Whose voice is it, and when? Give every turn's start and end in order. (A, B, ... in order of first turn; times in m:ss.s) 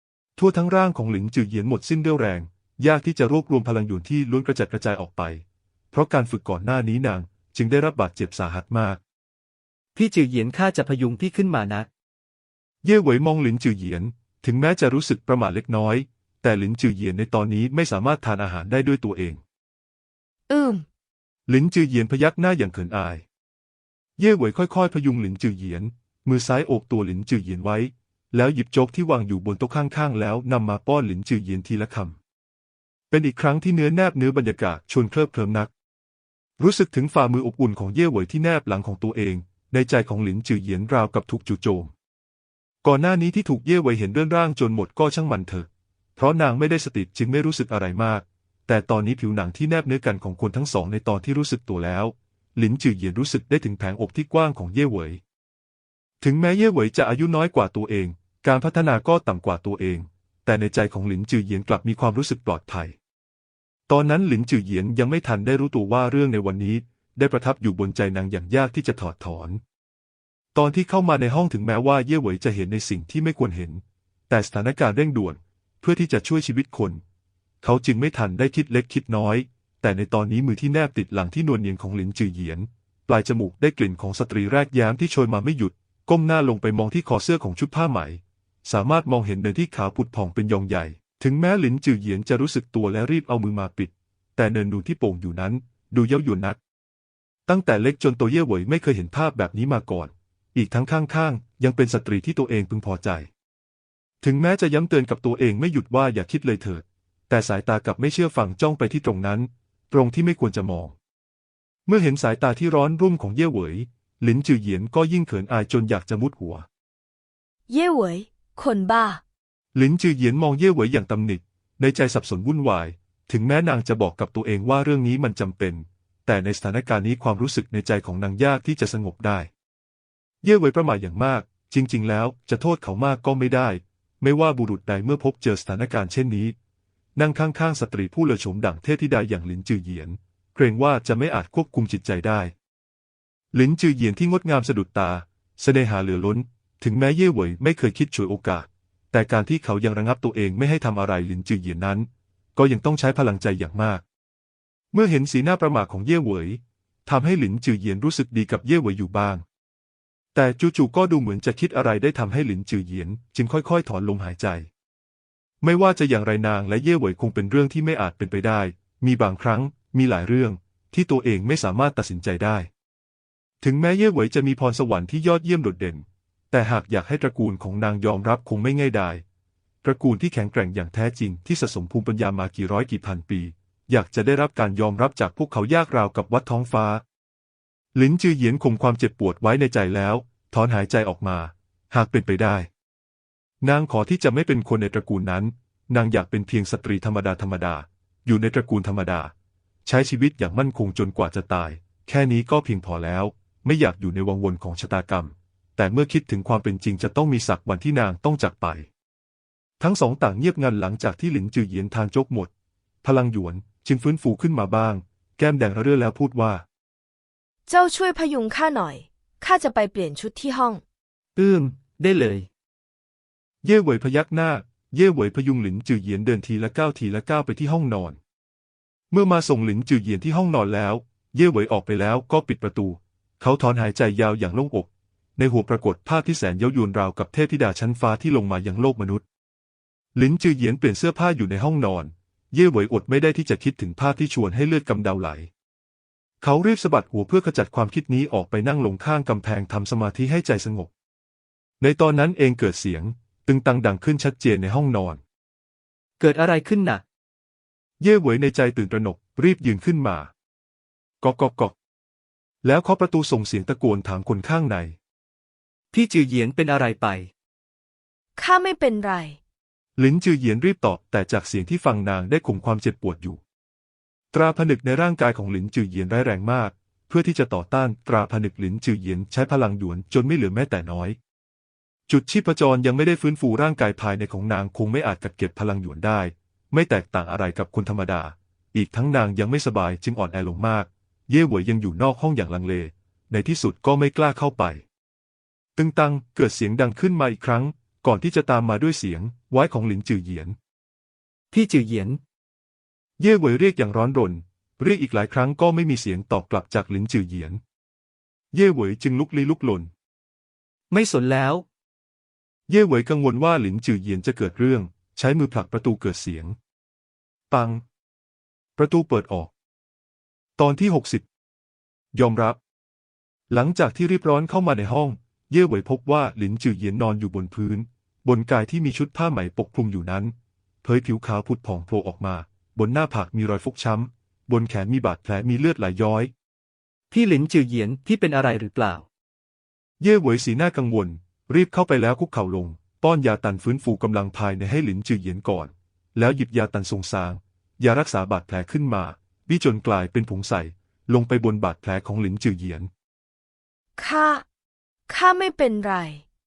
0:00.4-0:09.0 A
0:10.0-0:11.9 B
0:12.8-0:19.4 A
0:20.5-0:20.8 C
0:21.5-0:23.2 A
0:24.2-0:32.2 A
0:33.1-0:35.7 A
0:36.6-0:41.9 A
0:42.8-0:55.2 A
0:56.2-1:03.0 A
1:03.9-1:09.6 A
1:10.5-1:17.0 A
1:17.6-1:36.6 A
1:37.5-1:43.3 A
1:44.2-1:50.9 A
1:51.8-1:56.6 A
1:57.7-1:59.2 C
1:59.7-2:09.5 A
2:10.4-2:16.5 A
2:17.2-2:22.5 A
2:23.5-2:34.0 A
2:34.9-2:39.4 A
2:40.3-2:44.7 A
2:45.6-2:52.7 A
2:53.6-2:59.2 A
2:59.8-3:07.0 A
3:07.9-3:12.7 A
3:13.6-3:19.3 A
3:19.8-3:28.9 A
3:29.8-3:32.5 A
3:33.0-3:36.6 A
3:37.7-3:40.8 C
3:41.4-3:42.5 B
3:43.6-3:48.2 A
3:49.1-3:59.2 A
4:00.1-4:05.5 A
4:06.4-4:10.9 A
4:11.8-4:15.2 A
4:16.2-4:17.0 B
4:18.0-4:20.3 A
4:21.2-4:21.7 A
4:22.6-4:25.0 A
4:25.9-4:27.3 B
4:28.4-4:29.4 C
4:30.0-4:33.4 A
4:34.3-4:41.2 A
4:42.1-4:54.8 A
4:55.8-5:00.6 A
5:01.5-5:02.2 B
5:03.2-5:07.6 A
5:08.5-5:09.9 A
5:10.9-5:11.6 B
5:12.7-5:16.6 A
5:17.5-5:17.8 A
5:18.8-5:19.5 A
5:20.6-5:21.2 A
5:22.1-5:22.6 A
5:23.5-5:36.3 A
5:37.1-5:39.0 B
5:40.0-5:52.9 A
5:54.0-5:54.4 C
5:55.1-5:56.2 C